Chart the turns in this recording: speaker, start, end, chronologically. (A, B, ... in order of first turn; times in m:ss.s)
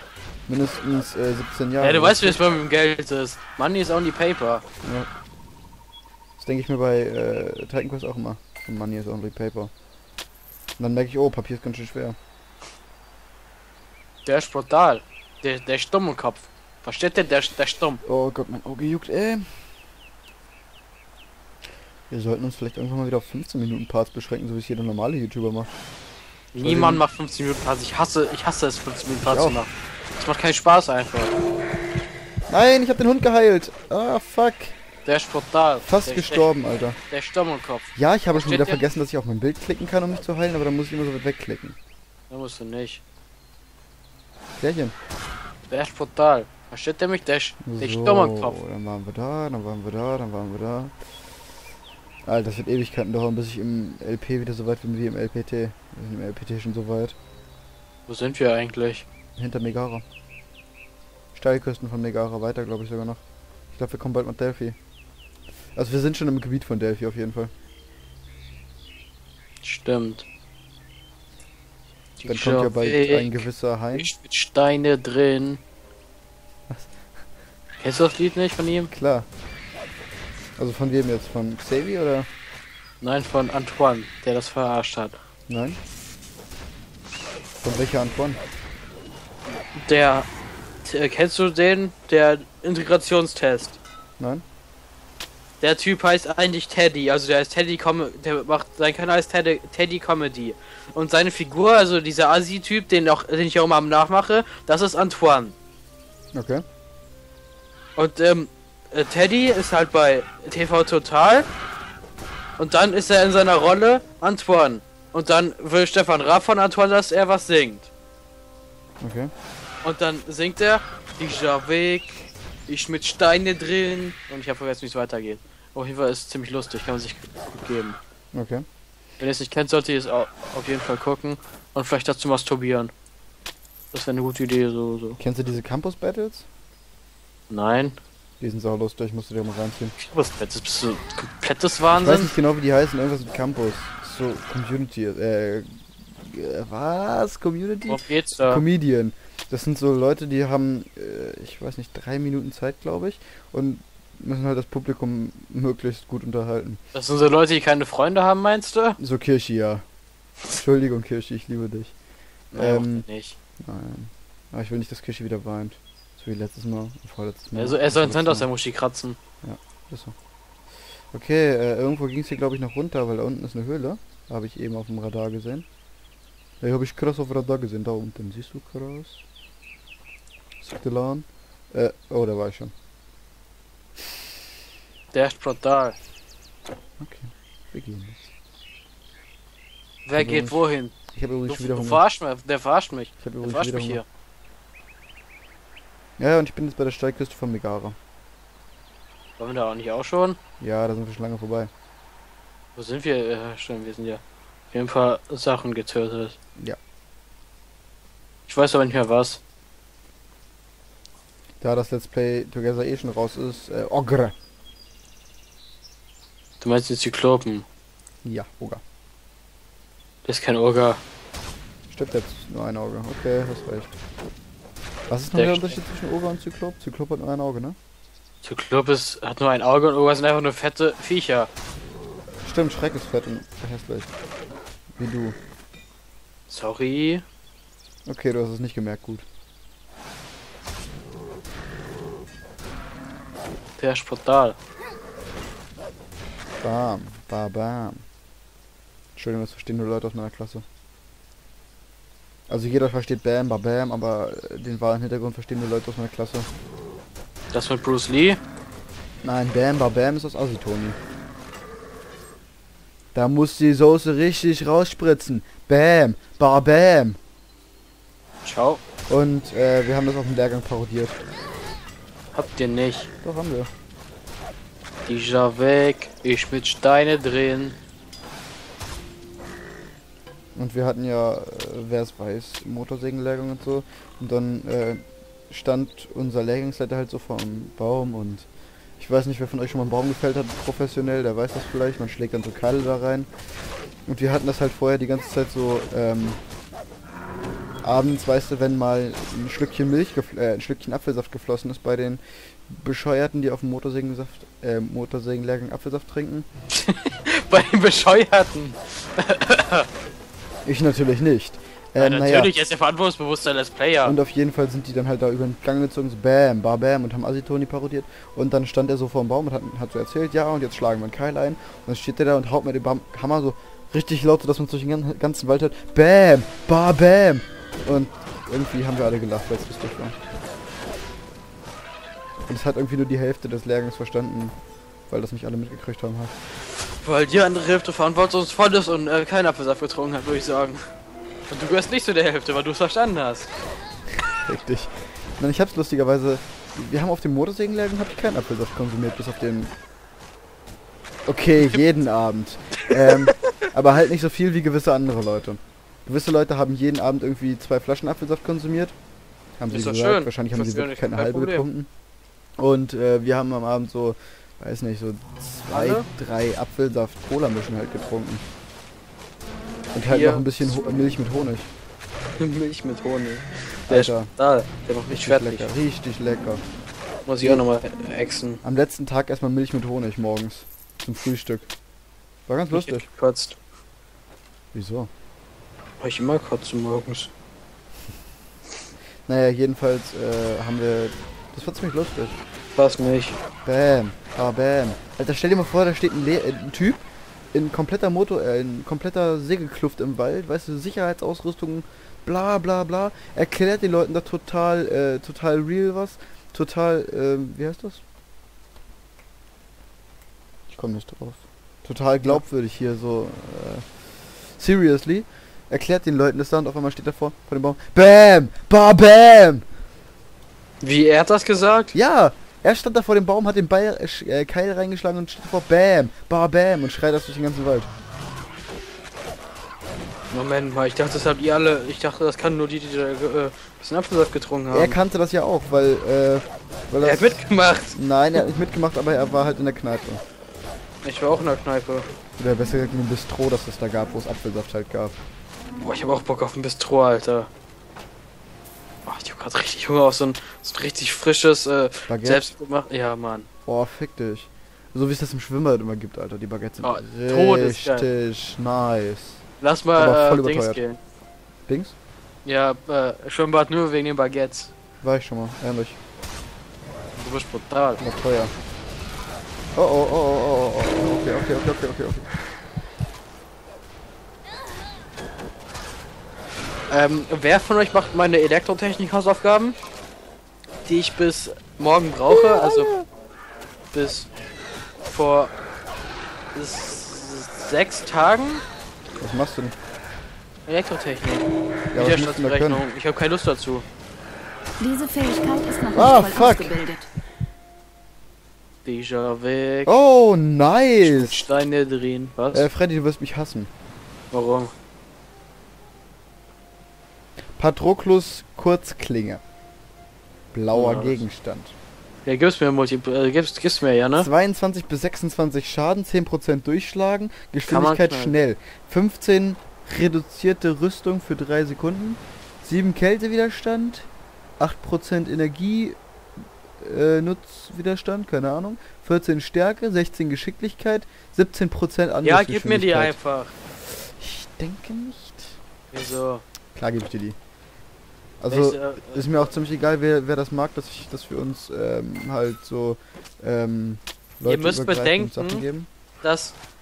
0:00.5-0:02.4 A
0:01.8-0:04.6 B
0:04.8-0:05.1 A
0:06.4-0:09.7 A
0:10.8-0:12.2 A
0:14.2-0:18.0 B
0:18.0-0:19.6 A
0:22.1-0:25.7 A
0:26.5-0:31.3 B
0:26.6-0:27.0 A
0:29.3-0:29.6 A
0:32.5-0:34.8 A
0:35.0-0:36.5 B
0:35.8-0:37.0 A
0:37.1-0:38.8 B
0:37.9-0:41.8 A
0:42.3-0:43.0 B
0:44.6-0:44.9 A
0:45.7-0:48.6 B
0:47.6-0:50.9 A
0:52.2-0:57.2 A
0:58.1-0:59.0 B
0:59.4-1:00.0 A
1:01.3-1:04.8 A
1:05.7-1:07.5 A
1:09.6-1:10.2 B
1:12.2-1:15.6 B
1:12.2-1:14.1 A
1:16.7-1:17.0 A
1:17.8-1:18.9 B
1:18.9-1:19.3 A
1:20.6-1:22.3 A
1:23.0-1:25.2 B
1:25.5-1:25.8 A
1:27.6-1:28.4 A
1:29.7-1:30.3 B
1:30.8-1:33.8 B
1:34.2-1:34.4 A
1:35.6-1:45.5 B
1:46.3-1:46.6 A
1:48.0-1:51.5 B
1:52.6-1:57.9 B
1:59.0-1:59.3 A
1:59.8-2:08.0 B
2:08.3-2:08.6 A
2:09.2-2:12.9 B
2:13.9-2:15.2 B
2:15.2-2:16.5 A
2:17.5-2:18.0 B
2:18.4-2:19.9 A
2:20.0-2:22.3 B
2:21.9-2:36.8 A
2:27.9-2:28.6 B
2:36.9-2:39.0 B
2:39.0-2:39.8 A
2:40.5-2:41.9 A
2:42.5-2:43.1 A
2:42.5-2:43.4 B
2:43.6-2:48.5 A
2:47.5-2:49.2 B
2:49.4-2:50.1 A
2:51.1-2:55.6 A
2:56.6-2:59.2 A
3:00.6-3:02.7 A
3:05.1-3:06.0 B
3:07.0-3:08.3 A
3:10.0-3:10.9 B
3:10.1-3:12.0 A
3:11.4-3:14.0 B
3:13.2-3:14.0 A
3:16.2-3:18.0 A
3:19.4-3:20.4 B
3:20.6-3:21.7 A
3:22.8-3:26.4 B
3:28.5-3:29.4 B
3:31.6-3:34.3 A
3:36.6-3:37.6 B
3:38.2-3:38.8 A
3:40.2-3:41.0 B
3:41.9-3:43.9 A
3:45.1-3:47.8 A
3:45.3-3:45.8 B
3:48.4-3:51.5 B
3:52.4-3:54.1 A
3:55.0-3:55.4 A
3:56.5-3:57.2 B
3:58.0-3:59.2 A
4:03.8-4:04.6 B
4:06.6-4:08.0 A
4:09.2-4:10.6 A
4:12.5-4:16.5 A
4:17.5-4:18.4 B
4:19.2-4:21.0 A
4:23.1-4:27.2 A
4:28.4-4:28.8 B
4:29.1-4:31.2 A
4:32.3-4:33.1 B
4:33.2-4:33.7 A
4:35.0-4:37.8 B
4:40.5-4:53.3 A
4:54.0-4:56.4 A
4:57.8-5:06.4 A
5:06.7-5:09.9 B
5:10.6-5:12.6 A
5:12.0-5:14.2 B
5:14.0-5:30.2 A
5:32.4-5:34.6 A
5:35.1-5:36.3 A
5:37.0-5:40.8 B
5:41.5-5:43.5 B
5:44.4-5:49.7 A
5:51.3-5:58.9 A
5:52.8-5:53.2 B
5:59.6-6:01.9 A
5:59.7-6:01.7 B
6:02.6-6:08.4 A
6:05.7-6:06.1 B
6:09.9-6:11.7 A
6:10.1-6:10.7 B
6:12.4-6:15.6 B
6:13.9-6:14.3 A
6:15.1-6:16.6 A
6:17.2-6:18.6 B
6:18.6-6:21.7 A
6:22.5-6:23.1 A
6:22.7-6:23.6 B
6:24.7-6:25.1 A
6:26.0-6:27.3 B
6:29.2-6:32.4 A
6:32.7-6:33.4 B
6:33.6-6:48.0 A
6:50.7-6:53.9 A
6:54.5-6:59.6 A
7:00.8-7:01.9 B
7:01.9-7:07.9 A
7:10.3-7:15.0 B
7:14.7-7:17.4 A
7:17.0-7:18.4 B
7:17.9-7:20.2 A
7:21.0-7:22.1 B
7:22.4-7:25.2 A
7:25.8-7:27.5 B
7:29.0-7:33.5 B
7:32.1-7:32.5 A
7:33.6-7:39.4 A
7:36.8-7:38.1 B
7:39.6-7:41.0 B
7:40.0-7:40.8 A
7:41.7-7:41.9 A
7:42.4-7:44.7 B
7:45.0-7:46.0 A
7:47.1-7:48.0 B
7:48.0-7:48.5 A
7:49.7-7:52.3 A
7:56.9-7:59.8 B
8:00.8-8:02.9 B
8:03.9-8:04.3 B
8:05.0-8:05.5 B
8:06.5-8:08.6 B
8:09.2-8:09.7 A
8:10.6-8:13.8 B
8:11.9-8:12.8 A
8:14.8-8:17.0 C
8:15.9-8:16.8 A
8:18.8-8:19.9 B
8:19.8-8:21.4 A
8:21.0-8:22.7 B
8:22.5-8:23.7 A
8:24.3-8:24.7 B
8:27.6-8:29.4 A
8:30.5-8:31.7 A
8:30.7-8:31.2 B
8:32.2-8:34.3 B
8:34.2-8:44.1 A
8:37.7-8:38.4 B
8:44.6-8:46.0 A
8:46.8-8:53.2 A
8:52.2-8:53.5 B
8:54.2-8:55.6 A
8:55.9-8:56.4 B
8:56.7-8:57.4 A
8:58.4-9:05.9 A
8:58.5-8:59.5 B
9:04.4-9:05.6 B
9:06.2-9:06.6 B